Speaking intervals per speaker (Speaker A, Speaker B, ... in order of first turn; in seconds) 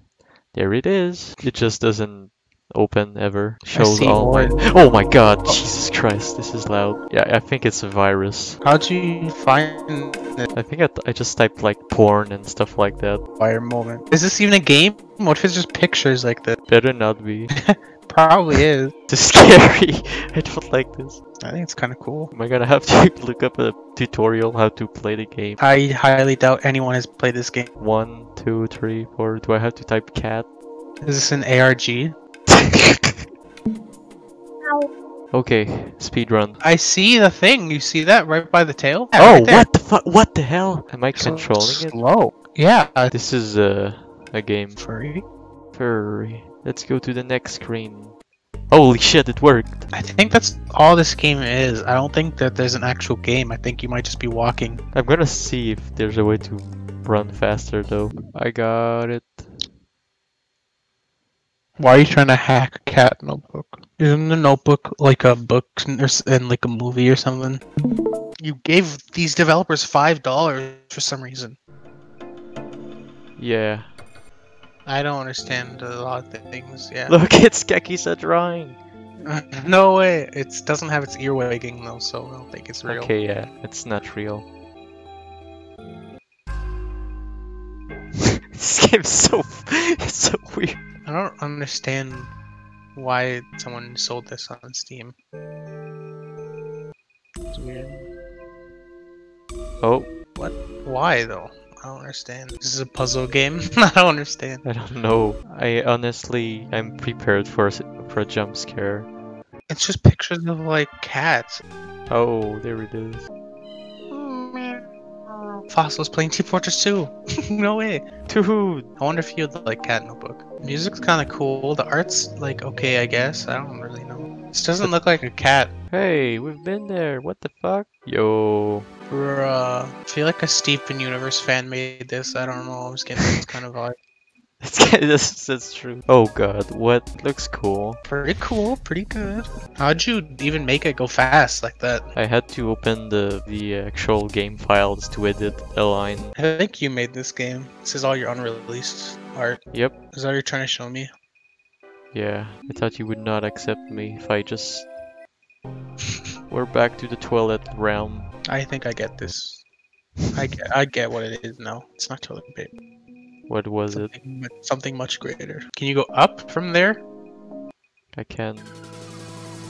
Speaker A: 0.5-8.6, 10.5-13.2, 16.7-17.5, 19.1-21.2, 22.3-25.6, 27.8-30.5, 32.5-33.3, 35.3-36.6, 39.1-42.0, 43.1-44.8, 45.7-48.1, 48.7-49.9, 54.9-59.5, 73.4-73.9, 77.1-78.8, 82.9-84.5, 88.2-90.8, 99.8-100.1, 104.6-109.1, 112.1-113.3, 118.3-118.9, 125.9-128.9, 133.2-133.5, 134.6-138.0, 142.1-146.3, 152.1-154.9, 156.5-158.3, 163.5-164.1, 168.1-168.7
Speaker B: 3.7-4.6, 8.6-10.5, 13.4-16.6, 17.6-18.9, 21.4-22.3, 25.6-27.7, 31.0-32.1, 36.6-39.7, 41.1-43.1, 44.8-45.2, 49.9-54.8, 61.8-67.6, 68.4-71.5, 74.8-77.2, 79.2-83.1, 91.0-92.3, 92.9-95.1, 97.5-98.1, 100.3-104.6, 109.7-111.6, 114.1-114.8, 115.7-118.0, 119.0-125.7, 129.1-133.9, 138.1-142.1, 146.3-151.1, 158.5-159.6, 160.3-162.7, 163.9-167.0